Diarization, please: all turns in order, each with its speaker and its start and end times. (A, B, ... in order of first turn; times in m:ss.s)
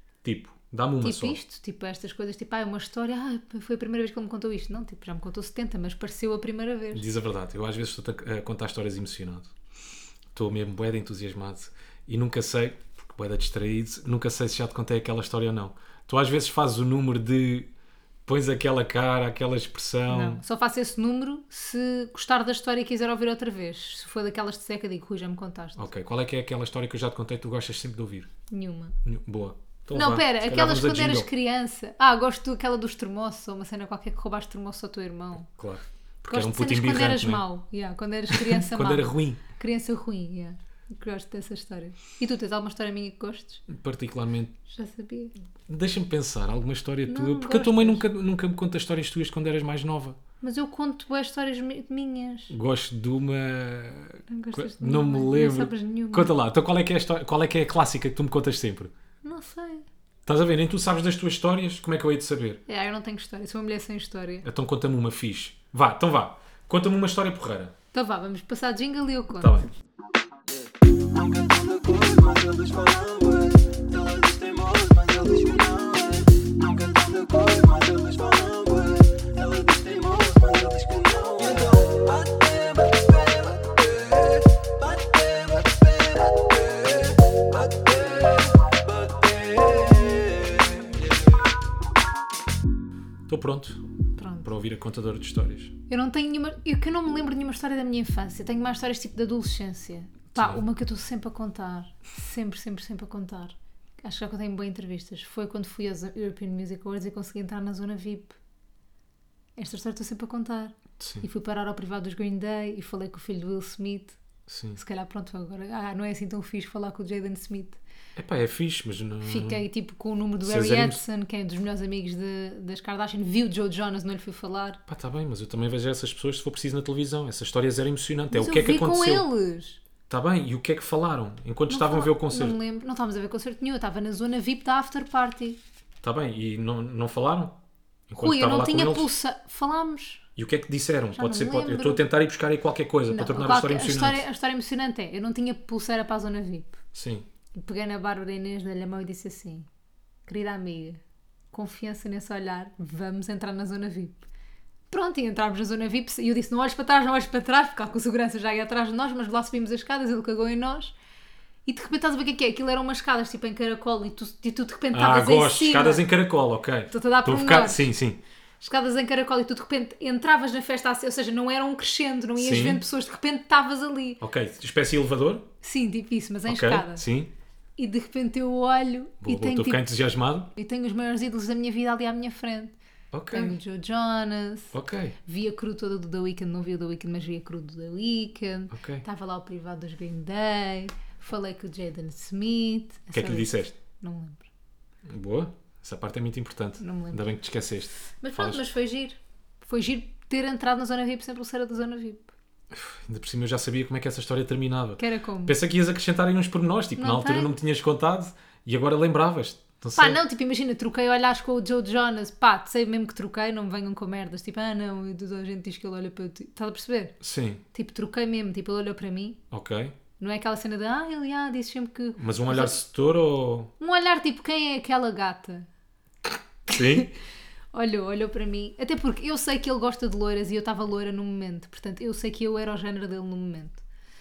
0:00.2-0:01.4 A
0:01.0-0:07.0 B
0:06.9-0:09.5 A
0:10.3-0:17.7 A
0:18.2-0:20.4 A
0:20.1-0:25.9 B
0:25.8-0:28.3 A
0:28.5-0:29.0 B
0:29.0-0:31.3 A
0:29.9-0:35.5 B
0:35.5-0:37.4 A
0:36.3-0:43.6 B
0:38.3-0:39.4 A
0:43.7-0:44.5 A
0:44.7-0:45.3 B
0:45.7-0:50.2 A
0:47.1-0:48.0 B
0:50.4-0:52.5 B
0:52.5-0:58.9 A
0:54.3-0:56.3 B
0:59.2-0:59.8 B
1:00.2-1:02.6 A
1:02.7-1:04.4 B
1:04.4-1:07.7 A
1:07.9-1:09.5 B
1:09.4-1:09.7 A
1:10.6-1:31.2 C
1:33.3-1:33.8 A
1:34.2-1:34.5 B
1:34.4-1:35.7 A
1:35.9-1:48.4 B
1:40.3-1:40.6 A
1:49.6-1:54.2 B
1:51.0-1:51.2 A
1:54.5-1:54.8 A
1:54.8-1:57.8 B
1:58.2-1:59.6 A
1:59.2-2:04.8 B
2:00.4-2:01.0 A
2:04.9-2:09.3 A
2:08.3-2:09.8 B
2:10.1-2:12.6 A
2:11.7-2:15.6 B
2:16.0-2:17.6 A
2:18.1-2:19.1 A
2:18.2-2:20.2 B
2:20.4-2:24.2 A
2:21.2-2:22.0 B
2:23.1-2:26.8 B
2:26.9-2:27.2 A
2:27.5-2:29.7 B
2:30.3-2:31.0 B
2:31.5-2:34.2 B
2:34.9-2:40.9 B
2:41.6-2:46.0 B
2:44.9-2:48.2 A
2:46.9-2:47.9 B
2:48.6-2:54.2 B
2:52.4-2:52.8 A
2:54.2-2:55.5 A
2:55.6-2:57.0 B
2:56.5-2:57.3 A
2:57.8-2:59.9 B
2:59.2-3:00.5 A
3:00.5-3:02.7 B
3:03.1-3:03.6 A
3:03.3-3:04.7 B
3:04.7-3:05.2 A
3:05.2-3:14.4 B
3:08.7-3:09.0 A
3:13.1-3:13.7 A
3:15.0-3:18.6 A
3:16.8-3:17.2 B
3:18.2-3:22.3 B
3:22.7-3:30.2 A
3:25.0-3:25.6 B
3:27.0-3:27.5 B
3:30.0-3:37.2 B
3:37.2-3:37.6 A
3:37.7-3:39.4 B
3:39.5-3:39.9 A
3:40.2-3:42.7 B
3:42.2-3:43.7 A
3:43.8-3:45.7 B
3:46.7-3:47.1 A
3:46.7-3:47.0 B
3:47.7-3:53.8 B